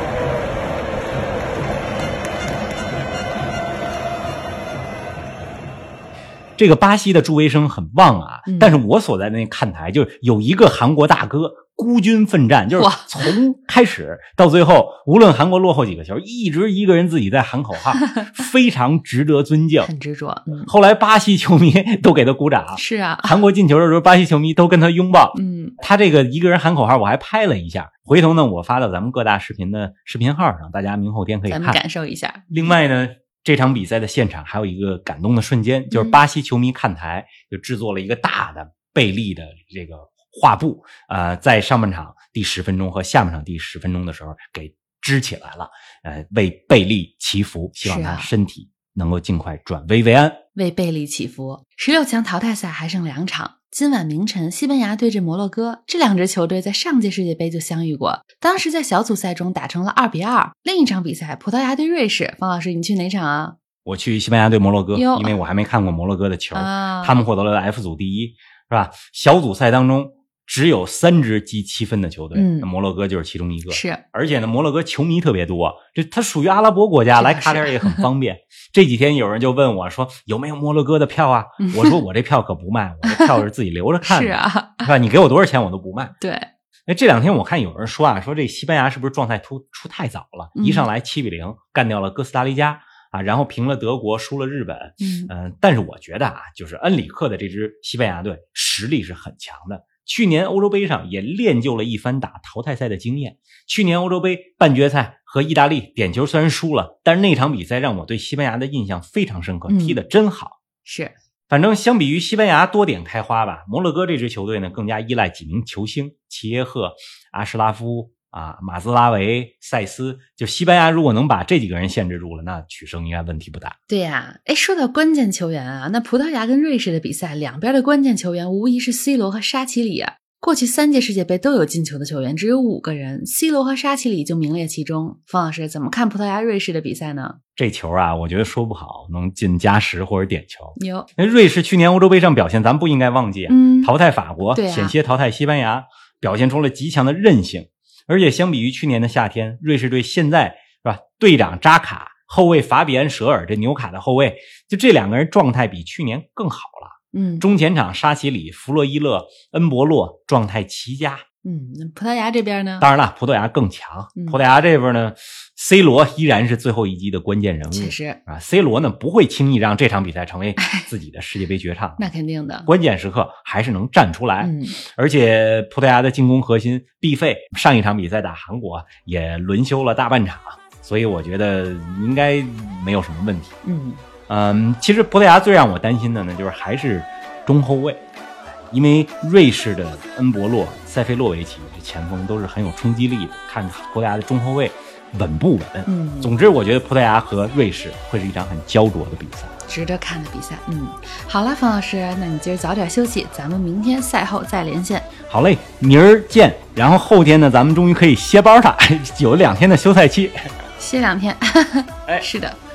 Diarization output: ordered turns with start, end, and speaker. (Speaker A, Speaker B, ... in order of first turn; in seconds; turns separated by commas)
Speaker A: 6.6-19.9, Speaker B: 8.4-8.8, Speaker B: 12.7-13.3, Speaker B: 19.8-20.7, Speaker A: 20.6-31.8, Speaker B: 22.7-23.4, Speaker B: 25.3-25.8, Speaker B: 31.5-32.7, Speaker A: 32.5-50.4, Speaker B: 35.9-36.2, Speaker B: 47.8-48.3, Speaker B: 50.5-63.6, Speaker A: 63.8-86.1, Speaker B: 64.9-65.3, Speaker B: 66.5-67.2, Speaker B: 72.3-72.7, Speaker B: 73.7-74.0, Speaker B: 77.2-78.1, Speaker B: 81.6-82.0, Speaker B: 83.0-83.3, Speaker B: 84.0-84.9, Speaker B: 86.2-86.5, Speaker A: 86.9-110.6, Speaker B: 90.5-90.9, Speaker B: 95.0-95.3, Speaker B: 109.7-110.0, Speaker B: 110.8-111.1, Speaker A: 111.5-123.8, Speaker B: 123.9-137.4, Speaker A: 137.6-161.2, Speaker B: 140.8-141.1, Speaker B: 143.5-143.9, Speaker B: 144.5-144.9, Speaker B: 157.1-157.4, Speaker B: 161.4-162.9, Speaker A: 162.8-172.0, Speaker B: 167.7-168.2, Speaker B: 170.6-170.9, Speaker B: 172.0-172.7, Speaker A: 172.7-183.5, Speaker B: 174.4-174.8, Speaker B: 183.6-184.0, Speaker A: 184.3-188.0, Speaker A: 188.7-199.5, Speaker B: 195.8-196.3, Speaker B: 199.7-205.1, Speaker A: 205.3-210.4, Speaker B: 210.8-212.6